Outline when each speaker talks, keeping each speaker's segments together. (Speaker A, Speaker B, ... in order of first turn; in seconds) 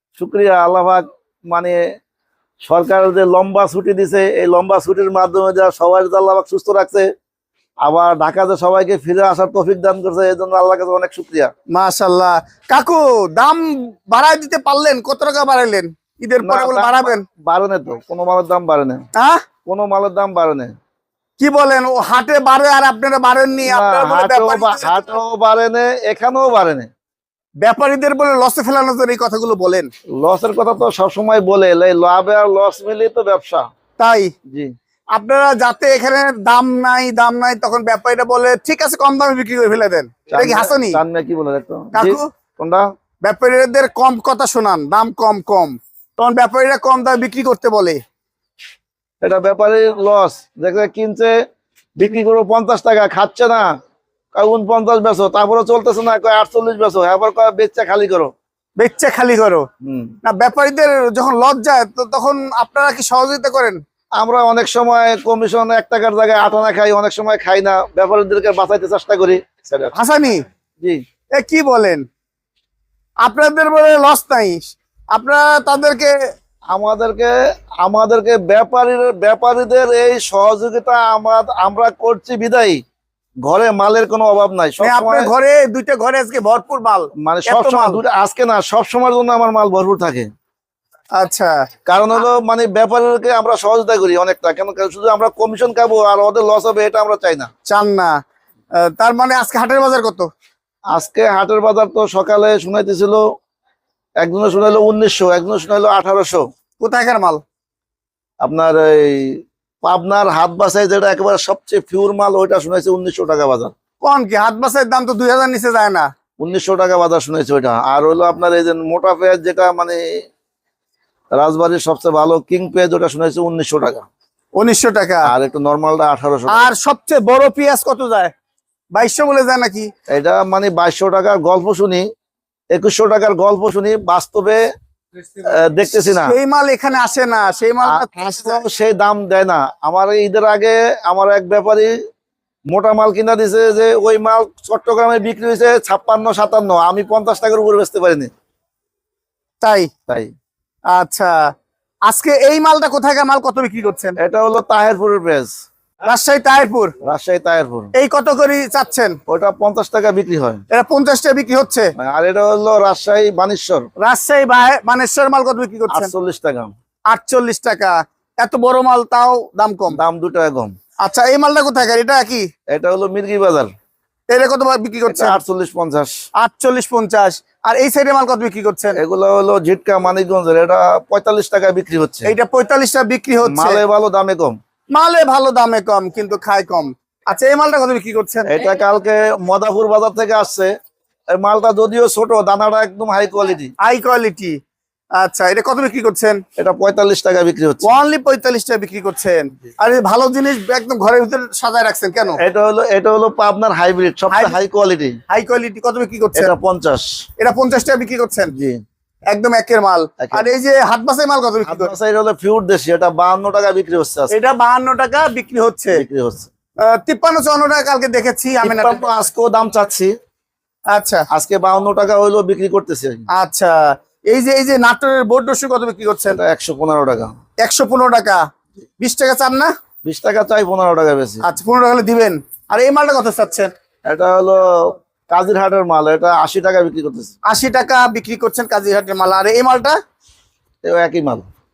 Speaker A: 0.2-1.9, 2.6-7.1, 7.8-11.5, 16.4-19.1, 19.7-20.7, 23.6-26.9, 30.2-33.6, 40.3-42.9, 49.2-51.3, 52.0-53.7, 54.3-58.3, 59.8-60.1, 64.2-70.0, 76.7-82.8, 83.4-85.3, 87.2-90.3, 91.9-97.5, 100.9-103.2, 104.2-106.4, 108.4-113.7, 116.4-120.2, 121.3-124.1, 125.3-126.7, 130.1-132.1, 132.7-134.6, 135.4-136.3, 137.9-142.0, 142.7-148.3, 150.1-150.3, 154.2-155.5, 157.0-157.9, 159.3-160.6, 162.0-163.9, 165.9-166.7, 169.9-170.8, 172.7-173.7, 175.1-176.2, 179.0-182.3, 183.5-184.6, 188.5-190.7, 191.3-193.7, 196.6-198.0, 202.4-205.2, 206.3-207.1, 208.6-208.8, 210.2-210.5, 211.7-214.3, 215.9-216.5, 218.6-220.1, 221.3-223.2, 226.3-227.3, 230.0-231.4, 234.1-237.3, 240.8-241.5
Speaker B: 11.7-17.2, 19.1-19.4, 21.4-25.0, 27.6-29.9, 34.0-34.3, 35.1-41.0, 41.9-42.3, 43.2-48.0, 58.8-59.7, 60.2-63.8, 70.0-70.4, 71.4-72.0, 73.2-76.2, 84.8-88.0, 91.1-91.6, 97.7-98.2, 98.8-100.3, 106.8-107.4, 114.0-116.1, 124.6-125.3, 126.5-128.3, 128.9-129.9, 136.1-138.6, 149.6-149.9, 150.9-151.5, 152.1-154.2, 156.1-156.9, 157.9-159.2, 160.7-161.9, 164.0-166.1, 167.1-170.0, 171.0-172.5, 174.3-175.4, 176.4-179.0, 182.3-183.8, 184.9-188.5, 193.8-194.6, 195.2-196.4, 197.8-202.4, 204.3-204.6, 205.3-206.5, 207.4-208.5, 209.3-211.9, 214.3-216.0, 216.8-219.1, 220.9-221.3, 223.3-223.8, 224.3-226.4, 227.6-228.4, 229.0-229.7, 231.4-233.7, 237.5-240.0